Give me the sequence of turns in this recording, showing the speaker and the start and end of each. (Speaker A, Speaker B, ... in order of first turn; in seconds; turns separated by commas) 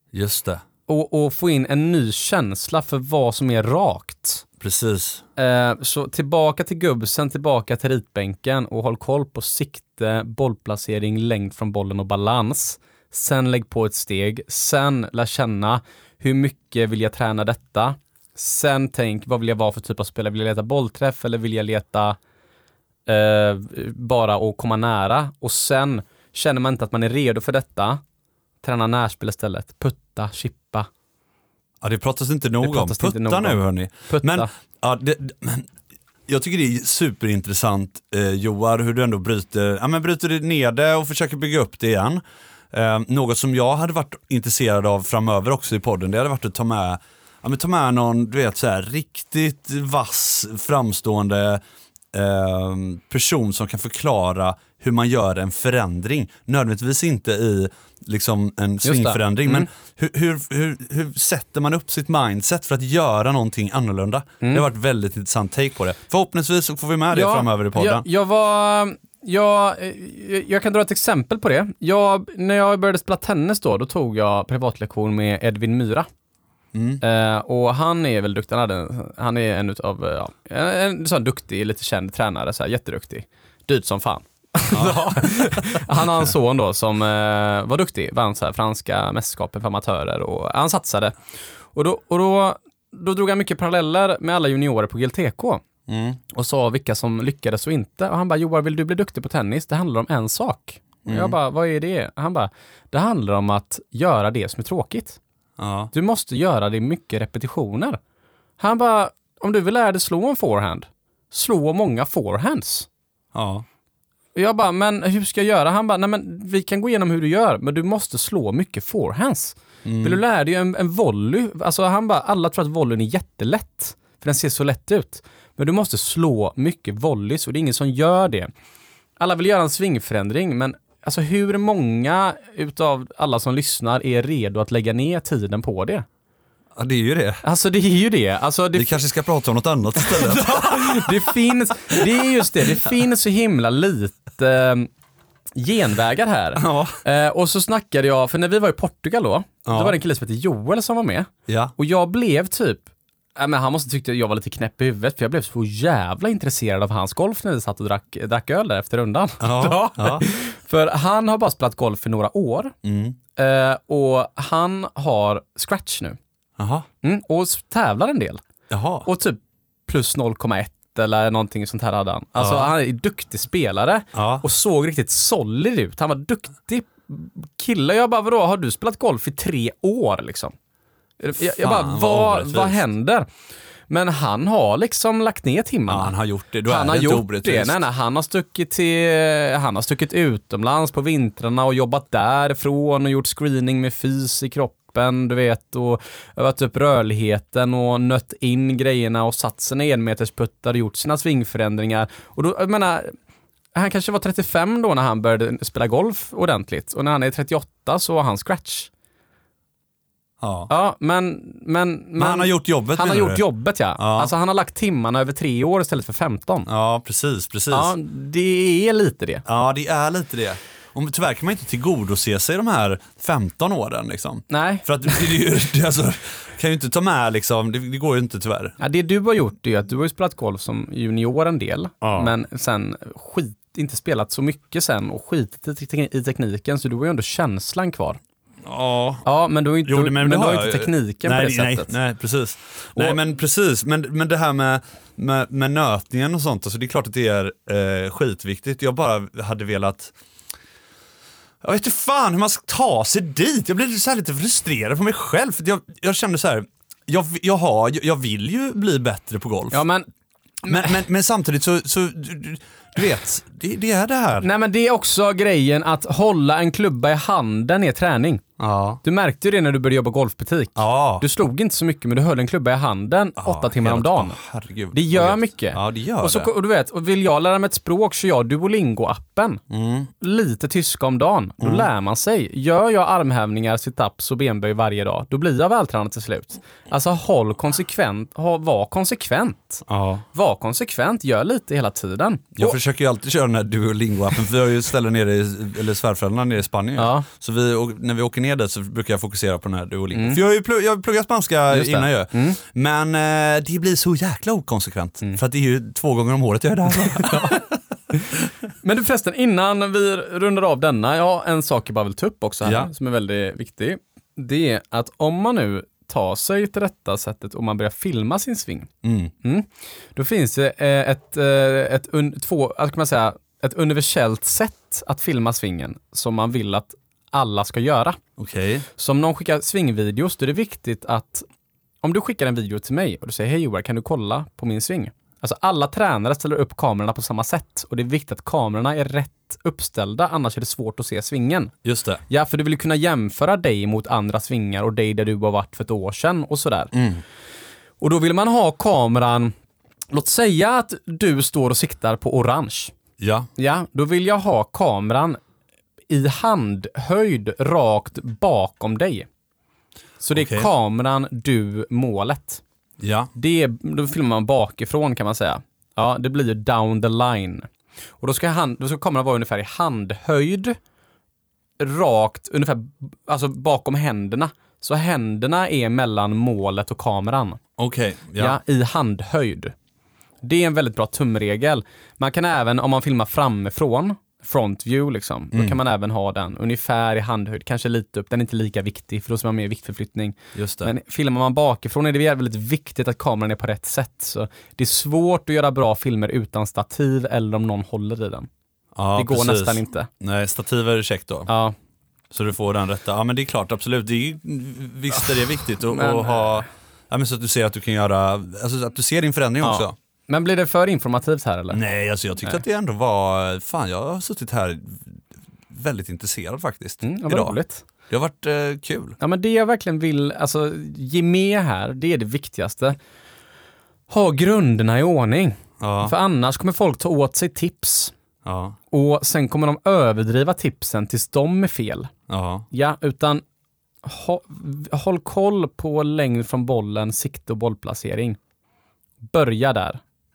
Speaker A: 0.1-0.6, Speaker B: 0.9-4.5, Speaker A: 4.6-5.2, Speaker B: 5.4-22.2, Speaker B: 23.1-28.0, Speaker B: 28.6-30.9, Speaker A: 31.8-35.7, Speaker B: 32.6-34.5, Speaker A: 36.3-51.6, Speaker A: 52.1-68.1, Speaker B: 58.8-59.7, Speaker B: 67.1-76.1, Speaker A: 76.7-77.0, Speaker B: 77.0-91.2, Speaker A: 84.7-86.3, Speaker B: 91.7-95.6, Speaker A: 95.9-96.2, Speaker B: 96.3-105.2, Speaker A: 101.0-101.4, Speaker A: 105.6-105.9, Speaker B: 105.9-108.0, Speaker B: 108.6-112.9, Speaker A: 113.3-113.7, Speaker B: 114.3-128.5, Speaker A: 119.8-120.2, Speaker B: 129.2-136.1, Speaker A: 136.8-137.4, Speaker B: 137.4-139.0, Speaker A: 138.7-141.4, Speaker B: 139.9-144.9, Speaker A: 141.9-142.4, Speaker B: 145.6-162.8, Speaker A: 146.6-147.0, Speaker A: 149.7-150.0, Speaker A: 151.5-151.8, Speaker A: 159.4-160.3, Speaker A: 162.8-163.2, Speaker B: 163.3-166.2, Speaker A: 166.6-166.9, Speaker B: 167.0-168.4, Speaker A: 168.7-169.1, Speaker B: 169.1-180.6, Speaker A: 172.4-172.7, Speaker A: 174.1-174.4, Speaker B: 181.2-183.3, Speaker A: 181.4-182.9, Speaker B: 183.9-203.2, Speaker A: 185.9-187.8, Speaker B: 203.7-208.9, Speaker A: 210.4-210.7, Speaker B: 210.7-216.7, Speaker A: 212.2-213.4, Speaker A: 214.0-214.3, Speaker A: 216.7-217.9, Speaker B: 217.7-219.4, Speaker A: 219.5-228.8, Speaker B: 224.5-225.3, Speaker B: 228.8-238.2, Speaker A: 232.0-232.3, Speaker A: 238.6-239.3, Speaker B: 239.2-241.9, Speaker A: 239.8-250.1, Speaker A: 251.6-259.8, Speaker B: 259.7-260.1, Speaker B: 260.6-261.0, Speaker A: 260.7-264.5, Speaker B: 264.4-268.4, Speaker A: 268.6-269.0, Speaker B: 269.0-274.4, Speaker A: 270.8-271.2, Speaker A: 273.4-276.5, Speaker B: 274.9-279.6, Speaker A: 279.7-280.1, Speaker B: 280.2-292.8, Speaker A: 281.6-281.9, Speaker A: 289.9-290.2, Speaker A: 292.6-307.8, Speaker B: 297.0-297.3, Speaker B: 300.1-300.4, Speaker B: 301.7-302.6, Speaker B: 307.1-307.6, Speaker B: 308.8-318.9, Speaker A: 312.6-312.9, Speaker A: 319.0-319.3, Speaker B: 319.4-328.2, Speaker A: 328.4-328.9, Speaker B: 329.0-331.5, Speaker B: 332.0-341.7, Speaker A: 341.9-342.2, Speaker B: 342.3-346.9, Speaker A: 346.9-347.2, Speaker B: 348.0-349.5, Speaker B: 350.1-352.9, Speaker A: 353.2-353.5, Speaker B: 353.6-355.4, Speaker B: 356.1-359.3, Speaker B: 360.2-362.6, Speaker A: 360.3-360.7, Speaker A: 363.0-363.3, Speaker B: 363.4-367.7, Speaker B: 368.2-370.8, Speaker B: 371.8-377.6, Speaker A: 377.8-378.6, Speaker B: 378.4-379.7, Speaker B: 380.4-398.5, Speaker A: 390.6-390.9, Speaker A: 398.9-401.5, Speaker B: 399.1-400.1, Speaker B: 401.5-401.8, Speaker A: 402.3-409.9, Speaker B: 405.9-406.7, Speaker B: 409.6-411.8, Speaker A: 411.7-417.6, Speaker B: 417.0-417.9, Speaker A: 418.1-419.2, Speaker B: 419.2-423.0, Speaker B: 424.1-428.1, Speaker A: 425.8-426.1, Speaker A: 428.4-428.8, Speaker B: 428.9-432.1, Speaker A: 432.3-432.7, Speaker B: 432.7-433.4, Speaker B: 434.0-438.4, Speaker B: 439.2-440.0